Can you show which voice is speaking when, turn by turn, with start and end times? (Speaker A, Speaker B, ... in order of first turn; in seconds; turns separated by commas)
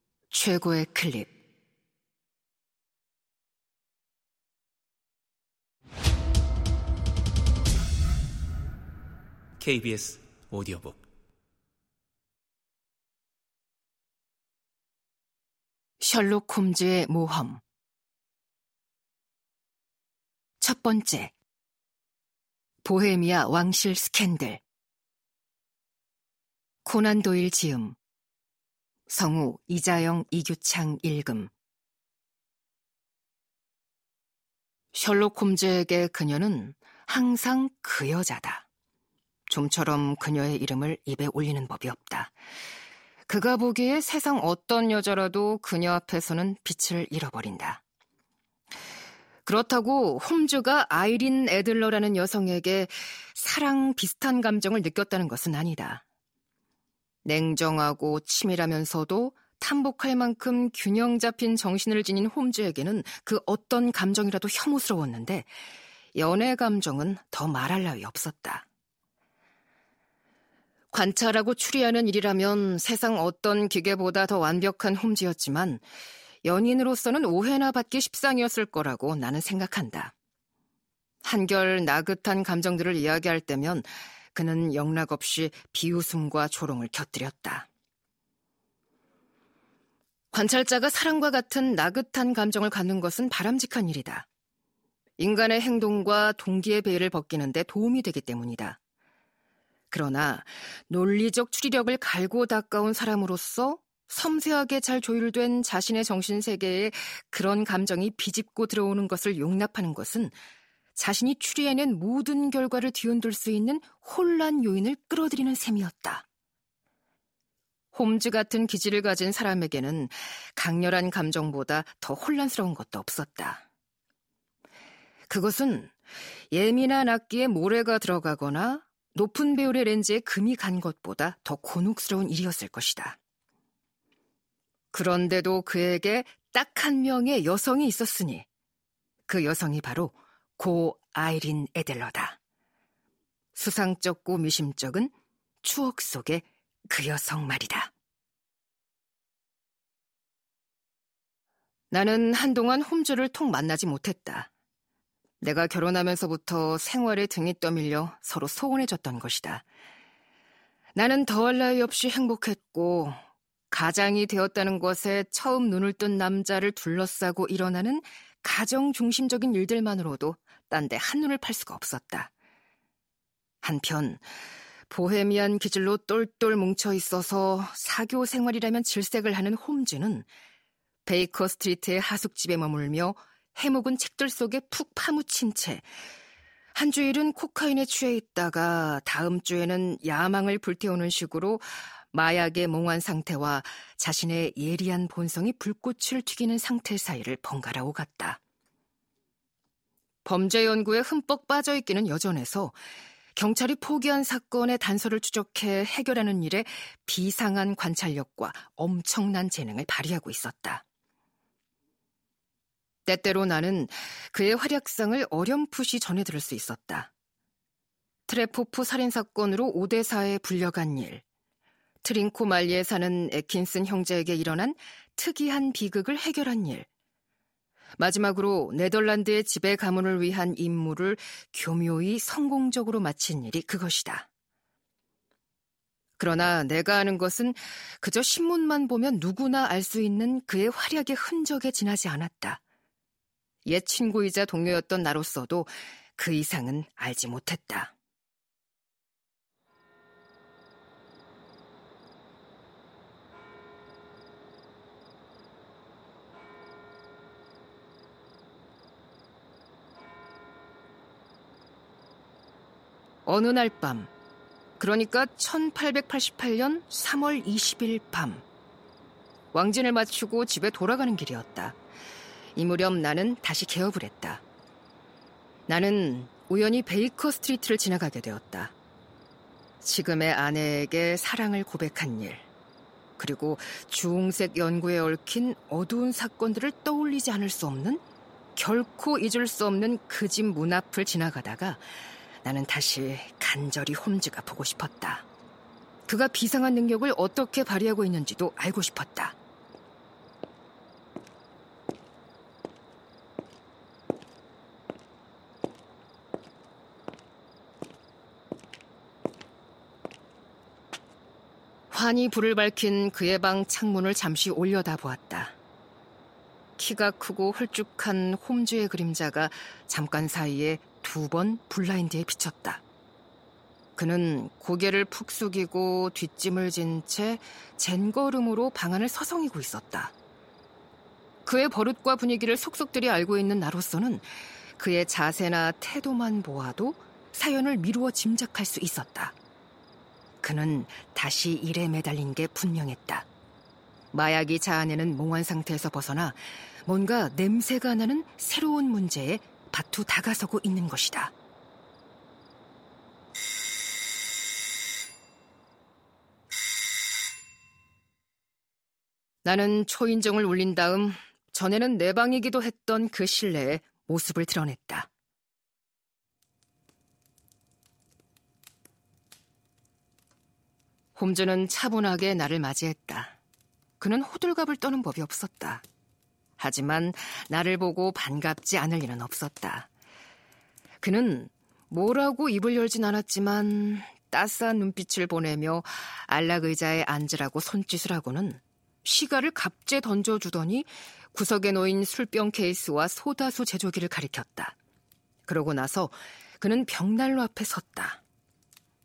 Speaker A: 0.3-1.3, Speaker A: 16.0-17.6, Speaker A: 20.6-21.3, Speaker A: 22.8-24.6, Speaker A: 26.9-28.0, Speaker A: 29.1-31.5, Speaker A: 35.0-38.7, Speaker A: 39.5-42.3, Speaker A: 43.3-47.8, Speaker A: 49.5-56.0, Speaker A: 57.2-65.5, Speaker A: 66.2-68.7, Speaker A: 70.9-75.8, Speaker A: 76.4-80.1, Speaker A: 81.2-87.7, Speaker A: 90.3-94.3, Speaker A: 95.2-98.8, Speaker A: 99.9-110.3, Speaker A: 111.0-116.2, Speaker A: 117.9-123.6, Speaker A: 125.3-125.9, Speaker A: 126.5-133.2, Speaker A: 134.9-138.5, Speaker A: 139.3-142.4, Speaker A: 143.6-145.1, Speaker A: 145.6-147.9, Speaker A: 151.9-154.5, Speaker A: 155.4-159.6, Speaker A: 160.9-163.2, Speaker A: 163.7-172.3, Speaker A: 173.6-174.2, Speaker A: 174.9-180.3, Speaker A: 181.1-185.9, Speaker A: 186.8-198.4, Speaker A: 200.2-202.8, Speaker A: 203.4-210.8, Speaker A: 213.1-217.1, Speaker A: 218.3-221.2, Speaker A: 222.0-226.9, Speaker A: 228.0-234.3, Speaker A: 236.2-242.6, Speaker A: 243.7-247.9, Speaker A: 263.3-264.1, Speaker A: 264.8-268.4, Speaker A: 269.5-271.8, Speaker A: 272.6-274.4, Speaker A: 275.7-278.7, Speaker A: 279.8-282.4, Speaker A: 283.2-288.0, Speaker A: 288.6-291.8, Speaker A: 292.4-295.3, Speaker A: 296.1-299.4, Speaker A: 311.9-315.6, Speaker A: 316.8-322.8, Speaker A: 324.0-330.1, Speaker A: 331.5-339.4, Speaker A: 340.4-343.3, Speaker A: 344.1-351.3, Speaker A: 359.4-365.1, Speaker A: 371.2-373.4, Speaker A: 374.0-375.8, Speaker A: 376.6-379.9, Speaker A: 381.0-394.8, Speaker A: 395.5-398.2